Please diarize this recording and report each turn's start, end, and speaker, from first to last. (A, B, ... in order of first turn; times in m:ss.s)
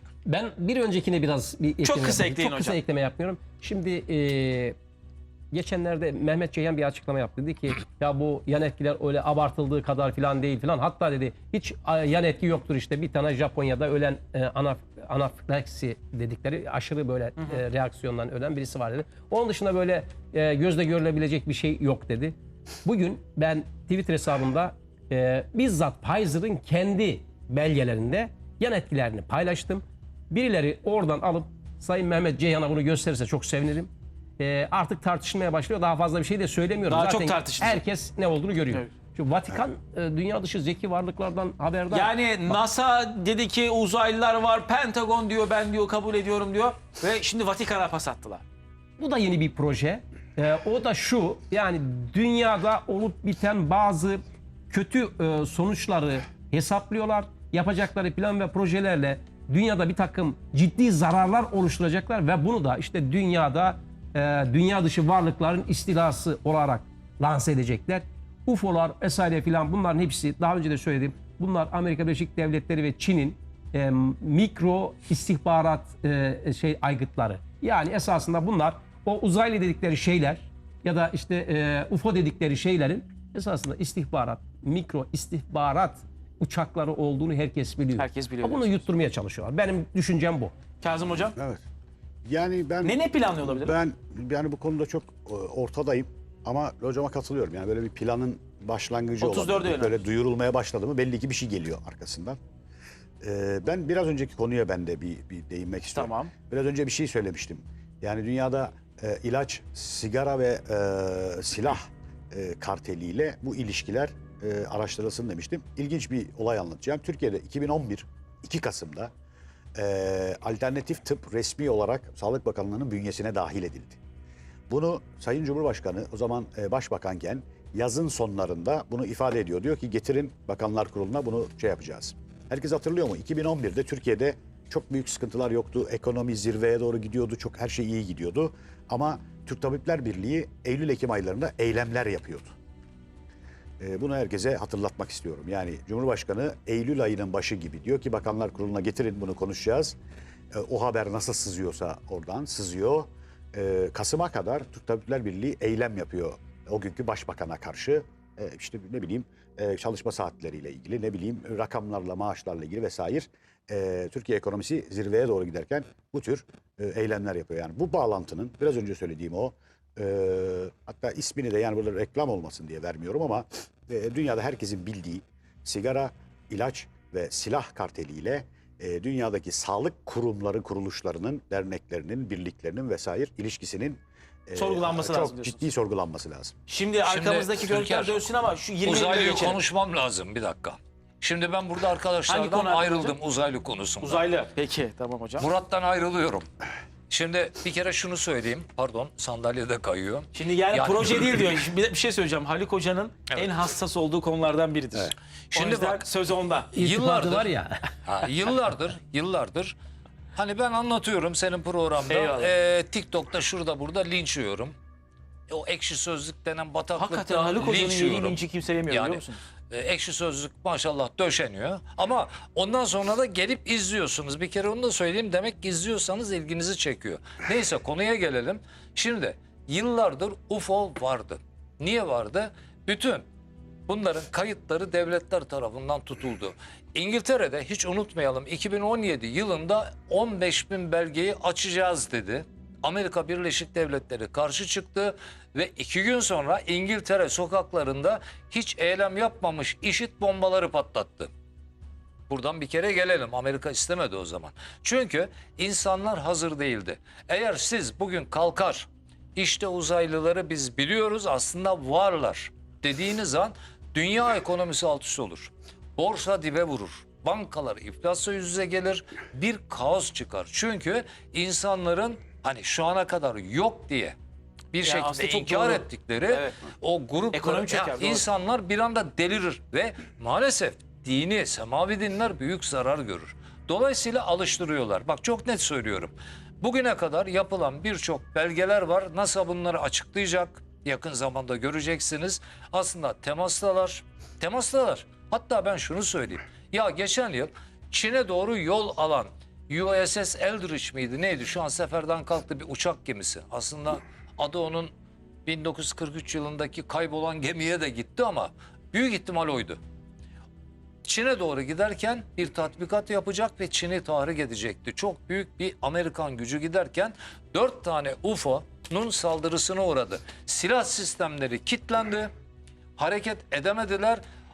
0:00.2-0:04.8 A
0:01.8-0:02.8 B
0:05.5-0:42.1 A
0:36.9-0:37.8 B
0:41.9-0:48.4 B
0:49.0-1:30.5 A
1:28.0-1:28.8 B
1:30.8-1:31.4 B
1:31.4-1:31.6 C
1:32.2-1:42.4 C
1:32.8-1:33.7 B
1:39.2-1:40.0 B
1:43.2-1:59.1 C
1:45.9-1:46.3 B
1:59.8-2:04.0 C
2:04.7-2:22.5 C
2:23.8-2:30.0 C
2:30.5-3:06.5 C
3:04.5-3:05.6 B
3:06.7-3:09.6 B
3:07.0-3:08.3 D
3:08.8-3:14.2 D
3:12.3-3:13.2 B
3:14.0-3:15.5 B
3:15.4-3:16.5 D
3:17.1-3:21.3 D
3:20.3-3:26.7 B
3:25.5-3:26.0 D
3:26.7-3:27.5 D
3:26.8-3:27.8 A
3:28.0-3:29.7 D
3:30.4-3:34.8 D
3:32.1-3:32.5 B
3:35.5-3:53.2 D
3:36.9-3:39.4 B
3:53.9-4:11.3 D
4:12.3-4:34.2 D
4:34.7-5:04.9 D
4:34.8-4:36.6 B
4:37.3-4:38.3 B
5:05.4-5:09.8 D
5:11.0-5:22.3 D
5:23.0-5:24.2 D